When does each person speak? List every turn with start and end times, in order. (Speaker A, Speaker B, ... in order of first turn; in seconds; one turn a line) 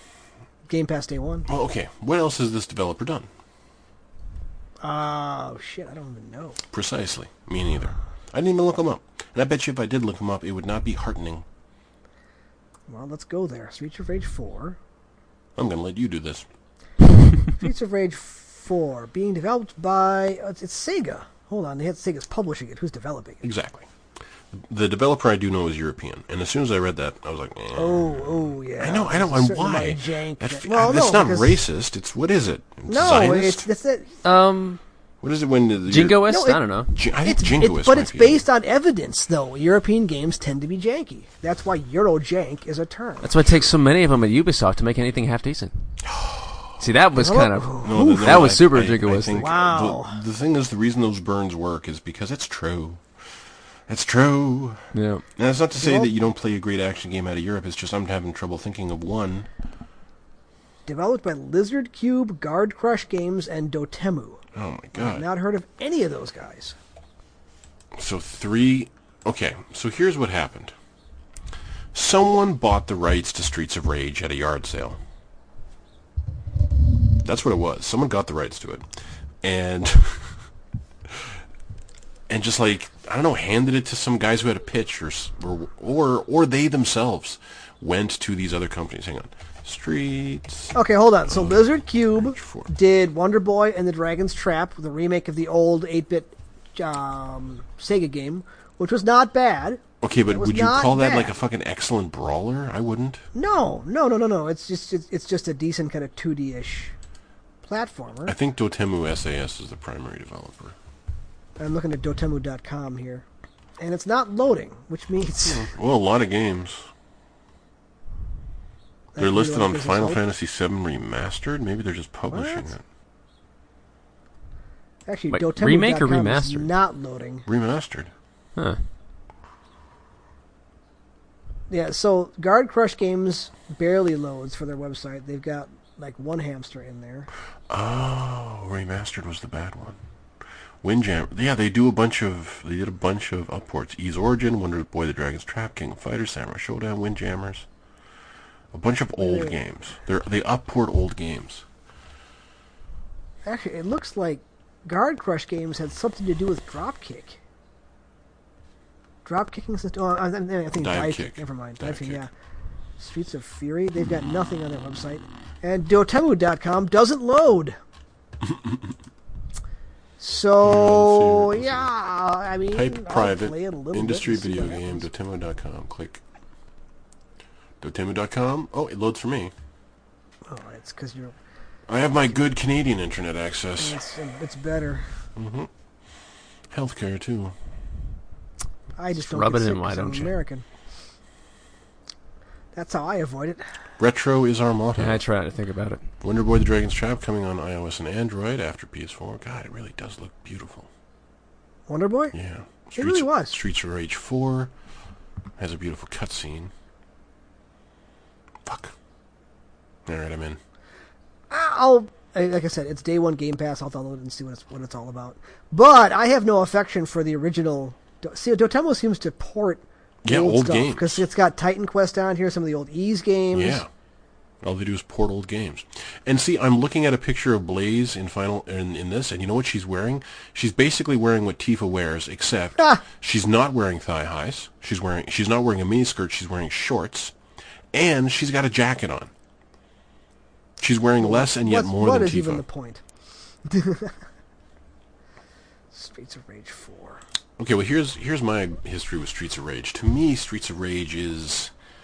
Speaker A: 0.7-1.5
Speaker B: 1.5-3.3
Speaker A: 4.8-6.6
Speaker B: 6.7-11.4
Speaker A: 12.9-14.8
Speaker B: 15.6-16.4
Speaker A: 17.5-23.4
Speaker B: 23.4-23.9
Speaker B: 24.5-33.6
Speaker A: 27.8-31.6
Speaker A: 32.9-34.2
Speaker C: 34.2-34.8
Speaker B: 35.2-36.3
Speaker C: 35.9-37.0
Speaker A: 36.2-36.6
Speaker B: 36.9-38.4
Speaker A: 37.2-43.3
Speaker C: 43.2-46.0
Speaker B: 43.4-43.7
Speaker B: 46.0-46.8
Speaker C: 46.8-49.5
Speaker A: 47.1-48.4
Speaker B: 47.8-53.0
Speaker A: 49.4-50.2
Speaker B: 53.9-59.5
Speaker C: 54.9-55.2
Speaker A: 55.7-56.1
Speaker A: 60.9-64.4
Speaker B: 64.5-65.2
Speaker A: 64.9-66.7
Speaker B: 67.9-70.7
Speaker B: 71.9-75.0
Speaker B: 77.2-78.9
Speaker B: 79.4-80.4
Speaker B: 81.1-81.4
Speaker B: 82.3-90.7
Speaker A: 90.7-101.3
Speaker B: 91.2-92.7
Speaker B: 100.0-103.2
Speaker A: 103.3-106.9
Speaker A: 107.6-108.3
Speaker B: 108.3-110.7
Speaker A: 111.6-113.2
Speaker A: 113.8-115.7
Speaker B: 115.4-116.8
Speaker A: 119.1-120.2
Speaker B: 119.2-122.8
Speaker A: 122.3-122.7
Speaker A: 125.1-127.5
Speaker C: 125.3-126.7
Speaker B: 127.5-128.1
Speaker A: 131.7-137.3
Speaker B: 137.7-140.0
Speaker B: 140.8-147.7
Speaker B: 148.7-151.6
Speaker A: 149.2-149.5
Speaker A: 153.4-157.4
Speaker A: 159.2-162.3
Speaker B: 160.7-162.2
Speaker A: 163.0-167.8
Speaker B: 168.4-168.9
Speaker A: 170.2-175.1
Speaker B: 170.6-171.9
Speaker B: 172.7-176.2
Speaker B: 177.8-179.5
Speaker A: 180.5-181.3
Speaker B: 181.9-184.0
Speaker A: 183.8-185.1
Speaker B: 185.3-185.7
Speaker B: 186.7-187.5
Speaker A: 189.0-190.6
Speaker C: 189.2-190.3
Speaker A: 192.7-193.6
Speaker B: 194.0-195.2
Speaker C: 195.0-196.0
Speaker B: 196.2-200.9
Speaker A: 201.9-202.3
Speaker B: 202.3-204.7
Speaker A: 202.9-203.6
Speaker B: 205.6-206.7
Speaker B: 208.6-208.9
Speaker B: 210.1-210.6
Speaker A: 211.5-223.8
Speaker B: 220.2-221.2
Speaker B: 223.5-223.9
Speaker B: 224.6-237.3
Speaker A: 232.8-233.0
Speaker B: 237.9-239.3
Speaker B: 240.8-242.6
Speaker A: 241.2-243.0
Speaker A: 243.7-244.1
Speaker A: 245.9-247.2
Speaker B: 247.6-251.7